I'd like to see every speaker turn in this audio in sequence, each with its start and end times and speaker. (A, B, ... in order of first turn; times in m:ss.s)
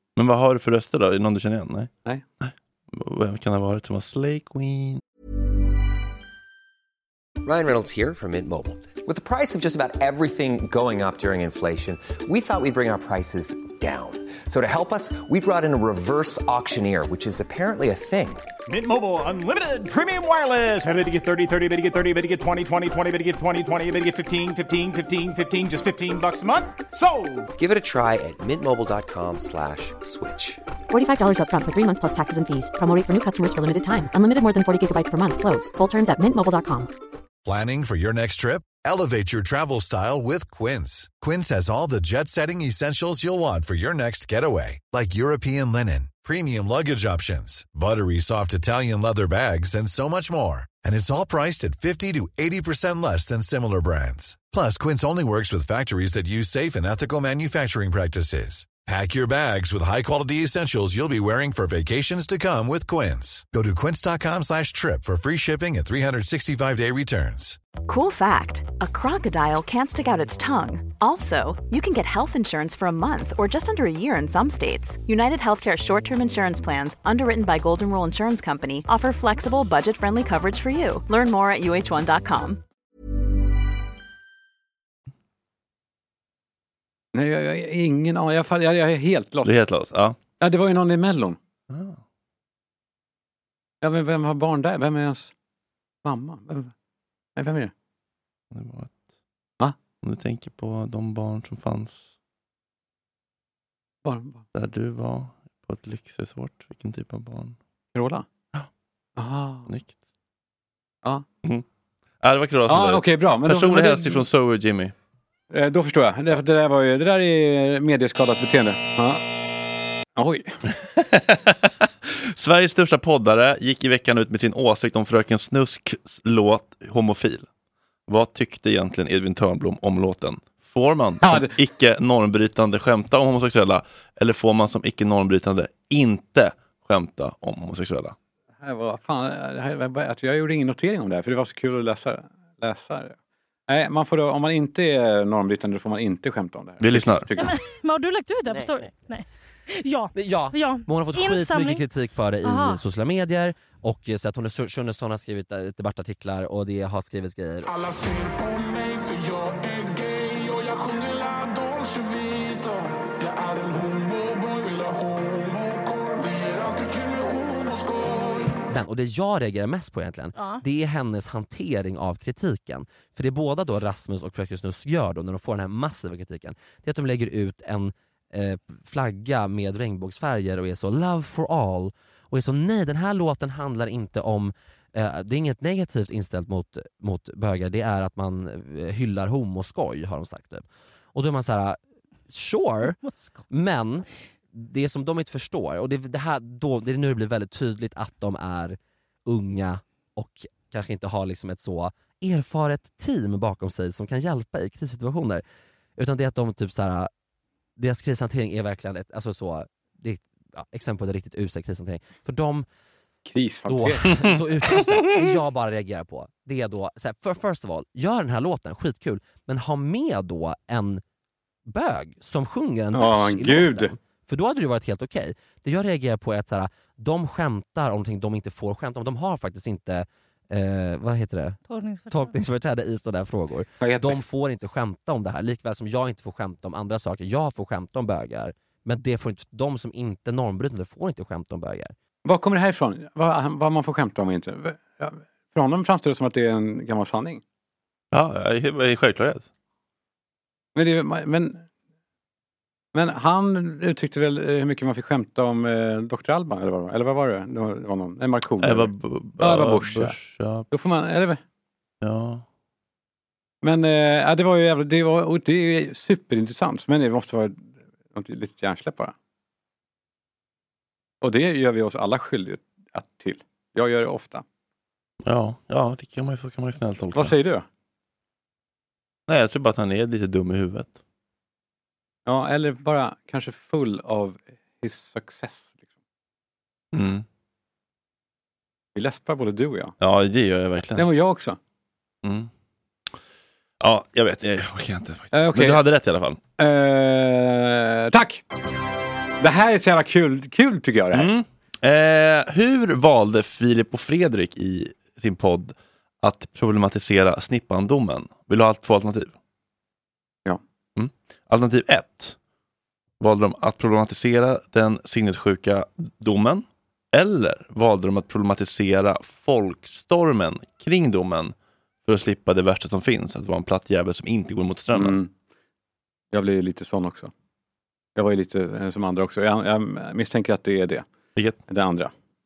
0:00.2-0:05.0 A
0:07.4-0:18.4 B
0:18.7-0:27.5 C
0:27.6-0:30.6 B
0:30.9-0:36.9 D
0:37.4-1:07.6 E
1:07.8-1:22.6 F
1:27.1-1:29.6 G
1:29.4-1:30.2 A
1:30.4-1:31.4 G
1:31.7-1:32.0 A
1:33.8-1:35.3 G
1:36.0-1:36.7 G
1:37.4-1:37.7 G
1:38.5-1:38.9 A
1:40.0-1:42.1 A
1:44.0-1:44.4 G
1:44.5-1:47.6 A
1:47.9-1:48.2 G
1:49.2-1:49.7 G
1:52.2-1:54.9 A
1:52.7-1:54.2 G
1:55.5-1:59.2 G
2:00.2-2:00.6 G
2:00.8-2:07.5 A
2:08.1-2:18.1 A
2:11.2-2:11.5 G
2:18.6-2:23.2 G
2:23.7-2:27.5 G
2:26.8-2:27.2 A
2:27.4-2:31.8 H
2:30.1-2:37.7 I
2:32.4-2:32.8 H
2:37.6-2:48.6 J
2:48.7-3:13.0 I
2:50.3-2:50.6 H
3:13.0-3:13.4 H
3:13.5-3:25.4 I
3:26.0-3:27.1 I
3:27.8-3:32.6 I
3:33.2-3:34.0 G
3:33.7-3:41.0 I
3:41.7-4:01.9 I
3:42.9-3:43.9 G
3:51.6-3:52.3 H
3:53.8-3:54.2 G
4:02.2-4:07.4 G
4:08.1-4:09.4 A
4:10.7-4:11.6 G
4:12.9-4:20.1 G
4:18.6-4:20.7 A
4:20.7-4:21.4 G
4:22.0-4:22.4 A
4:23.6-4:29.1 G
4:31.2-4:34.4 G
4:35.2-4:37.3 A
4:37.1-4:37.6 G
4:39.3-4:41.0 A
4:42.2-4:45.8 G
4:46.9-4:47.2 A
4:48.9-4:49.9 G
4:50.0-4:51.1 A
4:51.0-4:51.6 G
4:52.2-4:52.5 A
4:53.8-4:56.4 A
4:55.3-4:55.8 G
4:56.6-4:58.4 G
4:59.4-5:01.3 G
5:01.1-5:09.3 A
5:11.0-5:12.4 A
5:13.2-5:21.5 A
5:22.0-5:25.2 A
5:24.9-5:25.3 G
5:26.3-5:27.3 G
5:28.2-5:31.0 G
5:31.7-5:32.1 G